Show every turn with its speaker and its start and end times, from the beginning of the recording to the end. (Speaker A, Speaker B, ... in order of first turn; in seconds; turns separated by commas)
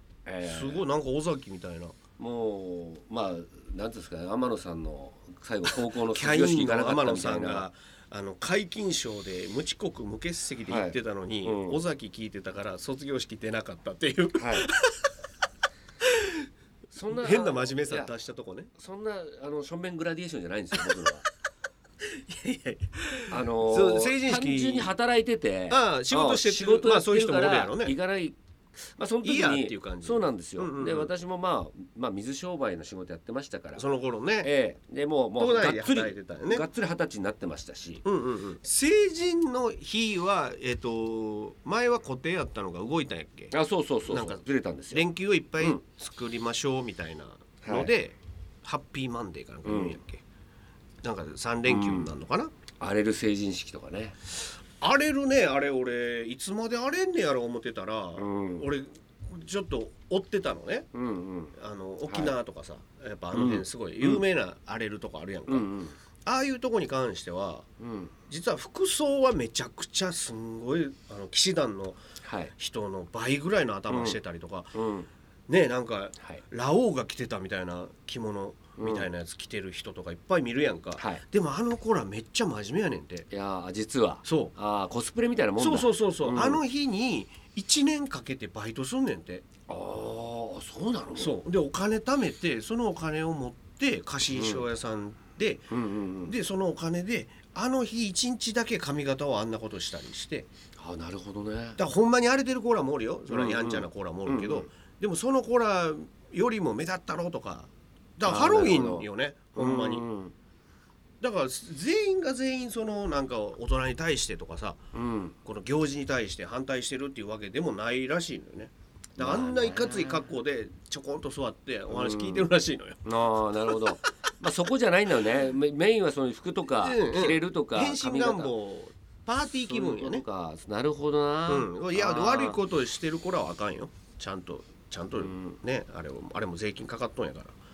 Speaker A: 0.2-0.8, Speaker B: 0.4-1.9, Speaker A: 2.2-7.7, Speaker B: 6.1-15.1, Speaker A: 10.7-11.8, Speaker A: 14.4-14.7, Speaker B: 16.0-16.4, Speaker A: 16.9-18.1, Speaker B: 17.1-18.7, Speaker A: 18.8-21.3, Speaker B: 22.0-24.9, Speaker A: 23.3-33.9, Speaker B: 25.7-28.0, Speaker B: 29.2-31.1, Speaker B: 33.8-34.5, Speaker A: 34.4-38.0, Speaker B: 35.4-36.7, Speaker B: 38.0-43.5, Speaker A: 43.5-45.1, Speaker B: 44.0-50.2, Speaker A: 47.6-47.9, Speaker A: 49.6-50.0, Speaker B: 51.0-52.5, Speaker A: 51.7-52.1, Speaker A: 52.8-54.2, Speaker B: 54.8-60.9, Speaker A: 58.2-58.7, Speaker A: 60.9-61.5, Speaker B: 61.6-65.7, Speaker A: 62.1-62.3, Speaker A: 63.3-64.2, Speaker A: 65.5-65.9, Speaker B: 66.2-67.7, Speaker A: 67.8-68.1, Speaker B: 68.3-72.0, Speaker A: 72.2-72.5, Speaker B: 72.6-74.7, Speaker A: 73.9-74.2, Speaker A: 74.7-75.1, Speaker B: 75.5-83.3, Speaker A: 78.8-79.1, Speaker A: 81.0-81.2, Speaker A: 83.3-86.6, Speaker B: 84.2-84.5, Speaker B: 85.6-89.4, Speaker A: 89.7-91.4, Speaker B: 91.2-95.7, Speaker A: 94.3-94.6, Speaker A: 95.7-96.3, Speaker B: 96.2-100.5, Speaker A: 100.8-101.8, Speaker B: 101.8-110.0, Speaker A: 103.3-104.7, Speaker A: 108.2-110.3, Speaker B: 111.2-114.8, Speaker A: 114.9-115.3, Speaker B: 115.4-123.0, Speaker A: 119.2-120.3, Speaker A: 121.9-122.5, Speaker A: 123.0-128.5, Speaker B: 126.8-130.2, Speaker A: 129.7-132.6, Speaker B: 131.5-137.5, Speaker A: 135.2-135.6